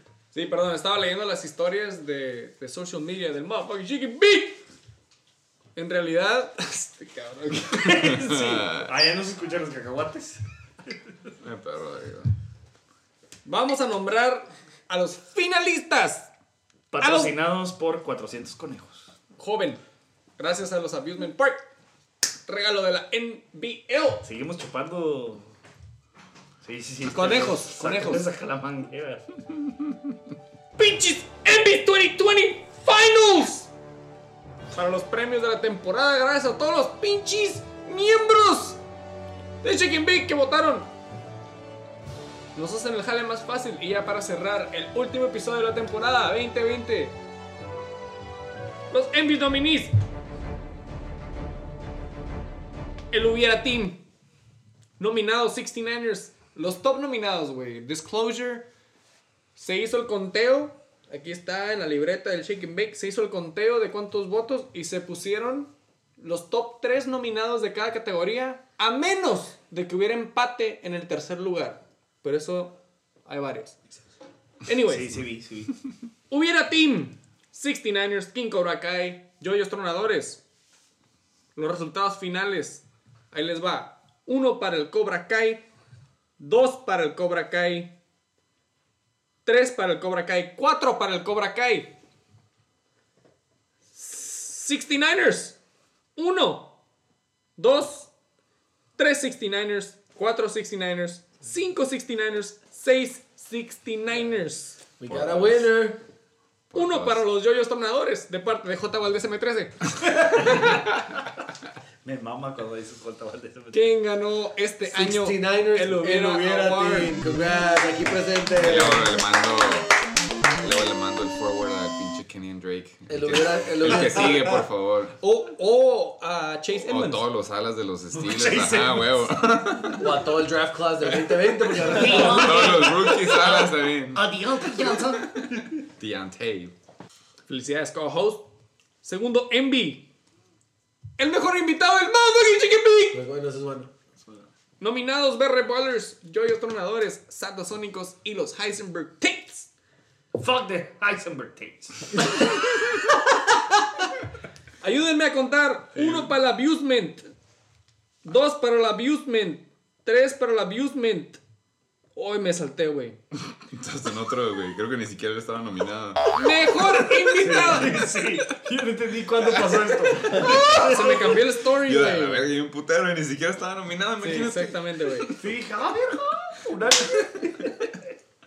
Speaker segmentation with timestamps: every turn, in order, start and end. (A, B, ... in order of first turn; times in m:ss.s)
0:00.3-0:04.6 A
0:05.8-0:08.1 A
0:07.7-0:10.4 B
0:08.1-0:08.9 C
0:11.4-0:12.3 C
0:13.4-0:16.3 A
0:16.9-0:19.1 B
0:17.0-0:17.4 A
0:19.4-0:19.8 A
0:20.4-0:21.6 A
0:22.4-0:24.2 A
0:24.2-0:25.5 B
0:26.6-0:29.2 B
0:27.1-0:28.2 A
0:30.8-0:33.7 A
0:34.7-0:38.8 A
0:39.6-0:40.9 A
0:42.5-0:47.1 A
0:48.9-0:49.9 A
0:53.1-0:54.0 A
0:55.0-0:58.6 A
0:59.6-1:14.0 A
1:14.6-1:15.2 A
1:14.9-1:15.7 B
1:16.3-1:20.4 A
1:21.6-1:25.6 A
1:26.4-1:27.9 A
1:29.4-1:31.9 A
1:33.9-1:35.6 A
1:36.2-1:36.7 A
1:37.6-1:38.1 A
1:39.0-1:44.8 A
1:45.0-1:46.0 D
1:45.0-1:45.7 C
1:46.7-1:47.2 C
1:46.7-1:50.8 A
1:52.0-1:53.9 B
1:53.7-1:57.1 A
1:54.9-1:59.1 D
1:58.6-1:59.9 C
2:00.6-2:05.1 C
2:03.1-2:04.6 D
2:05.2-2:07.3 A
2:06.8-2:10.2 C
2:08.2-2:09.2 B
2:10.0-2:12.8 D
2:11.2-2:16.7 C
2:11.8-2:15.4 B
2:17.5-2:18.4 A
2:19.0-2:20.0 A
2:21.2-2:23.2 A
2:23.1-2:23.9 D
2:24.8-2:29.7 A
2:30.3-2:32.5 B
2:34.8-2:37.3 A
2:36.0-2:36.3 C
2:38.2-2:41.4 A
2:42.1-2:43.2 A
2:43.7-2:46.3 C
2:46.3-2:48.0 A
2:47.3-2:51.4 B
2:50.4-2:52.5 A
2:51.7-2:55.5 C
2:54.2-2:55.3 A
2:55.4-2:57.7 B